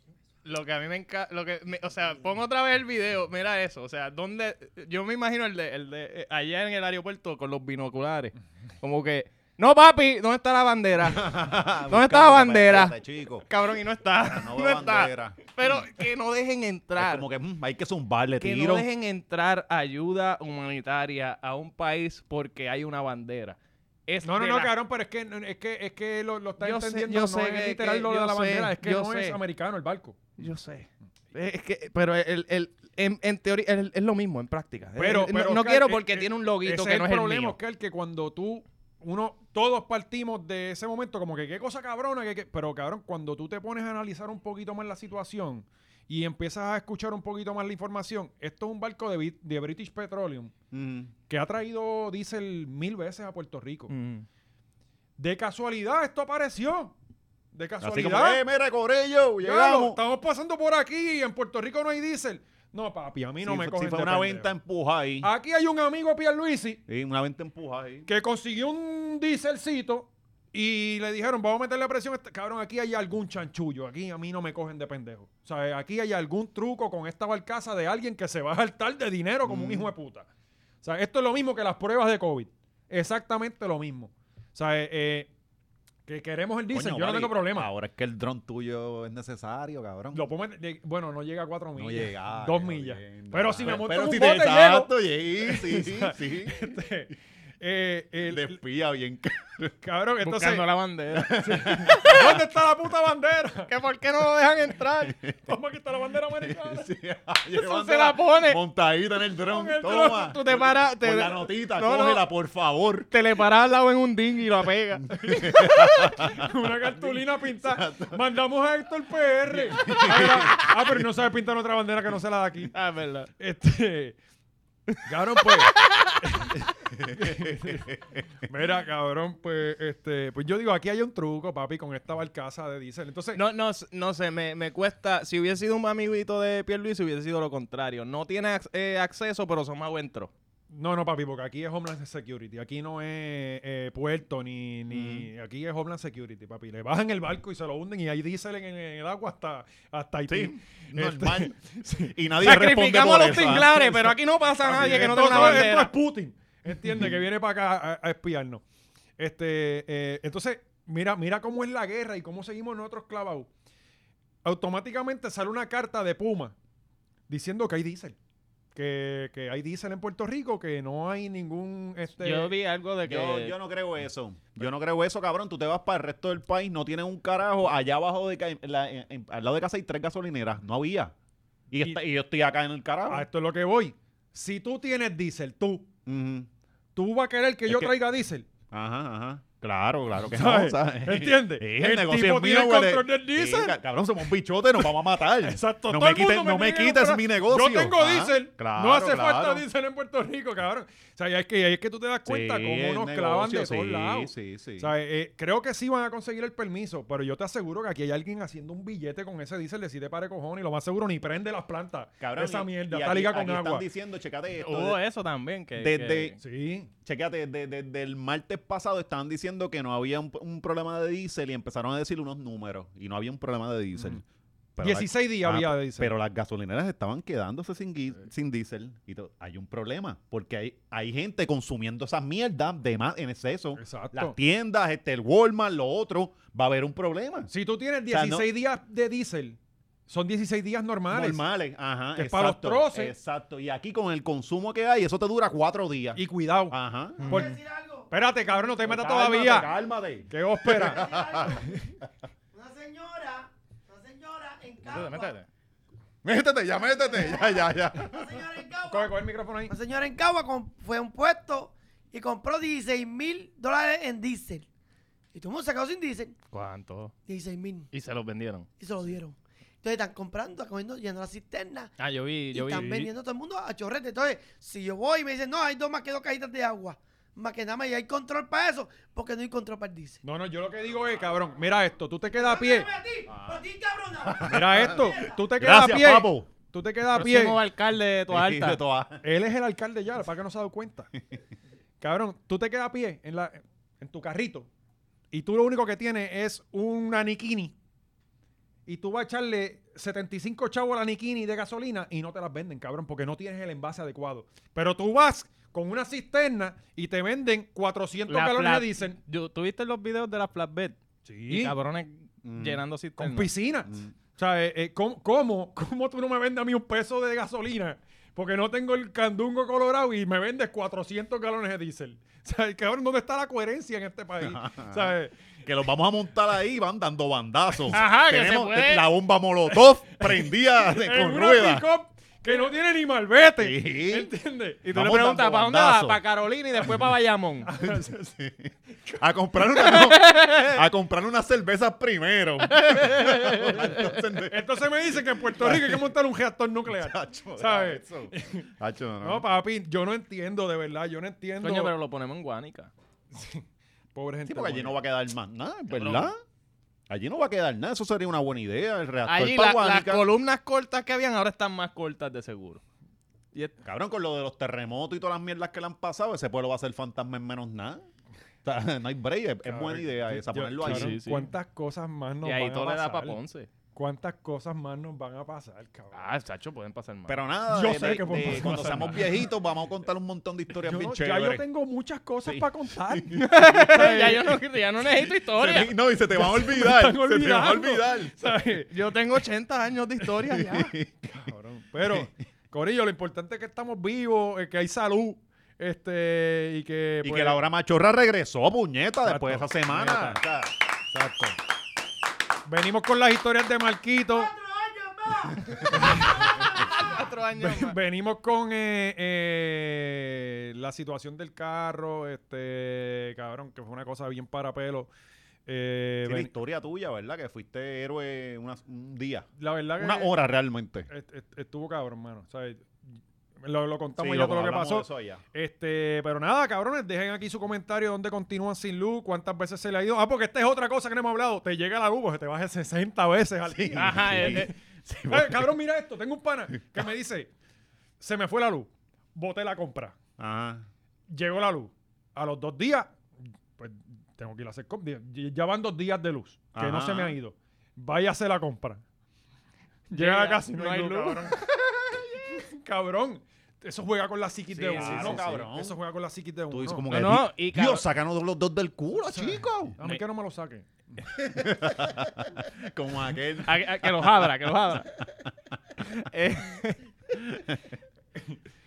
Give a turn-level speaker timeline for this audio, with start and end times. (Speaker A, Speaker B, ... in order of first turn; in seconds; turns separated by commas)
Speaker A: 0.5-17.2, Speaker B: 11.0-13.5, Speaker B: 14.2-15.5, Speaker B: 17.0-18.9, Speaker A: 18.4-24.7, Speaker C: 24.2-30.2, Speaker A: 26.6-29.4, Speaker A: 30.4-37.6, Speaker C: 35.0-50.5, Speaker B: 50.7-51.1, Speaker C: 51.3-53.9, Speaker A: 53.9-54.3, Speaker C: 55.2-56.9, Speaker C: 57.5-58.4, Speaker B: 57.8-60.0, Speaker C: 59.4-64.5, Speaker B: 63.4-65.3, Speaker C: 65.2-66.8, Speaker B: 66.9-68.1, Speaker C: 68.1-80.3, Speaker B: 79.5-79.9, Speaker C: 80.8-85.3, Speaker C: 86.1-87.7, Speaker B: 86.7-90.3, Speaker C: 90.1-98.6, Speaker B: 91.8-96.8, Speaker B: 98.3-99.7, Speaker C: 99.8-100.7, Speaker A: 100.2-102.3, Speaker B: 101.1-102.2, Speaker C: 101.4-103.7, Speaker A: 103.7-105.2, Speaker B: 105.1-105.3, Speaker C: 105.5-106.9, Speaker B: 106.4-113.1, Speaker A: 107.5-108.6, Speaker C: 109.5-110.2, Speaker A: 109.9-112.2, Speaker A: 113.1-116.1, Speaker B: 115.0-118.2, Speaker C: 116.2-122.7, Speaker B: 119.7-121.0, Speaker A: 120.1-120.5, Speaker A: 122.7-123.3, Speaker C: 123.4-124.2, Speaker C: 125.0-133.4, Speaker A: 125.5-126.2, Speaker B: 126.9-128.3, Speaker A: 133.3-140.3, Speaker C: 140.7-152.2, Speaker B: 144.9-145.3, Speaker B: 150.3-154.2, Speaker A: 152.4-155.9, Speaker C: 154.6-158.6, Speaker B: 154.7-155.6, Speaker C: 159.2-163.5, Speaker C: 164.4-166.6, Speaker C: 167.3-168.2, Speaker C: 168.8-172.5, Speaker A: 172.2-173.6, Speaker B: 173.0-181.1, Speaker B: 181.7-183.3, Speaker C: 183.1-185.9, Speaker B: 186.1-186.5, Speaker C: 186.9-188.5, Speaker B: 187.7-188.0, Speaker B: 188.7-199.6, Speaker C: 190.3-193.8, Speaker C: 194.8-213.9, Speaker B: 202.3-204.9, Speaker B: 212.2-215.0, Speaker A: 214.6-216.4, Speaker B: 215.8-216.4, Speaker C: 216.4-216.9, Speaker B: 217.1-224.2, Speaker C: 224.0-224.2, Speaker B: 224.8-237.5, Speaker C: 224.8-226.1, Speaker C: 233.8-234.4, Speaker C: 237.5-241.4, Speaker B: 238.1-238.5, Speaker B: 241.1-247.4, Speaker C: 242.2-243.1, Speaker C: 246.2-247.6, Speaker D: 247.2-248.1, Speaker C: 248.1-249.7, Speaker B: 248.8-251.6, Speaker C: 250.3-251.1, Speaker D: 250.8-251.8, Speaker D: 252.5-255.4, Speaker A: 254.9-255.5, Speaker B: 256.2-258.4, Speaker D: 257.1-264.7, Speaker C: 258.9-259.7, Speaker D: 265.3-266.4, Speaker A: 266.5-267.1, Speaker D: 267.3-267.9, Speaker A: 267.9-268.7, Speaker D: 268.8-271.9, Speaker A: 272.0-273.1, Speaker D: 272.5-280.2, Speaker C: 272.7-273.1, Speaker C: 280.2-282.9, Speaker D: 282.3-285.3, Speaker B: 283.3-283.6, Speaker B: 284.2-286.5, Speaker C: 284.4-287.6, Speaker A: 287.1-288.8, Speaker B: 288.3-289.2, Speaker C: 289.2-291.1, Speaker C: 292.0-294.7, Speaker C: 295.3-297.8, Speaker C: 298.9-309.2, Speaker A: 308.3-311.0, Speaker C: 311.2-311.7, Speaker A: 311.5-313.5, Speaker B: 312.4-312.8, Speaker C: 313.2-325.4, Speaker B: 313.9-314.1, Speaker B: 324.4-325.1, Speaker B: 325.6-331.9, Speaker A: 327.9-329.1, Speaker C: 330.2-334.9, Speaker B: 333.6-334.3, Speaker A: 334.8-337.7, Speaker B: 334.9-336.2, Speaker C: 337.6-338.4, Speaker B: 337.8-346.1, Speaker A: 339.7-340.8, Speaker A: 342.7-344.2, Speaker C: 344.4-348.7, Speaker B: 346.9-349.4, Speaker C: 349.2-351.9, Speaker A: 351.6-352.9, Speaker C: 353.3-355.0, Speaker B: 354.4-356.4, Speaker A: 355.9-356.3, Speaker B: 357.1-360.3, Speaker A: 359.3-362.8, Speaker B: 363.8-368.1, Speaker B: 368.6-371.2, Speaker C: 369.6-373.4, Speaker A: 370.8-371.5, Speaker A: 372.4-373.7, Speaker C: 373.9-376.3, Speaker A: 376.1-377.5, Speaker B: 377.3-381.6, Speaker C: 377.7-379.1, Speaker A: 378.4-379.3, Speaker C: 380.8-384.6, Speaker B: 382.4-383.5, Speaker A: 383.4-385.9, Speaker B: 385.2-388.4, Speaker C: 386.3-388.9, Speaker A: 388.9-390.9, Speaker B: 390.3-391.1, Speaker C: 391.2-397.6, Speaker B: 397.2-400.7, Speaker C: 399.2-400.4, Speaker C: 401.1-401.6, Speaker C: 402.7-404.5, Speaker D: 404.3-407.2, Speaker C: 405.9-406.6, Speaker A: 406.7-408.0, Speaker C: 407.5-415.1, Speaker C: 415.7-416.5, Speaker B: 416.2-421.1, Speaker C: 419.6-420.4, Speaker C: 421.1-423.0, Speaker C: 423.6-434.7, Speaker B: 424.2-425.4, Speaker B: 433.7-435.7, Speaker A: 434.0-434.7, Speaker C: 435.3-437.5, Speaker C: 438.2-440.2, Speaker B: 440.4-440.9, Speaker C: 441.3-443.2, Speaker C: 443.8-449.0, Speaker B: 446.7-447.4, Speaker C: 450.1-451.6, Speaker A: 450.1-452.1, Speaker C: 452.4-457.1, Speaker A: 454.7-455.5, Speaker B: 454.9-456.0, Speaker B: 456.7-460.0, Speaker A: 457.1-458.1, Speaker C: 459.3-461.3, Speaker B: 461.4-464.5, Speaker A: 463.6-465.2, Speaker A: 466.2-467.0, Speaker B: 467.3-467.8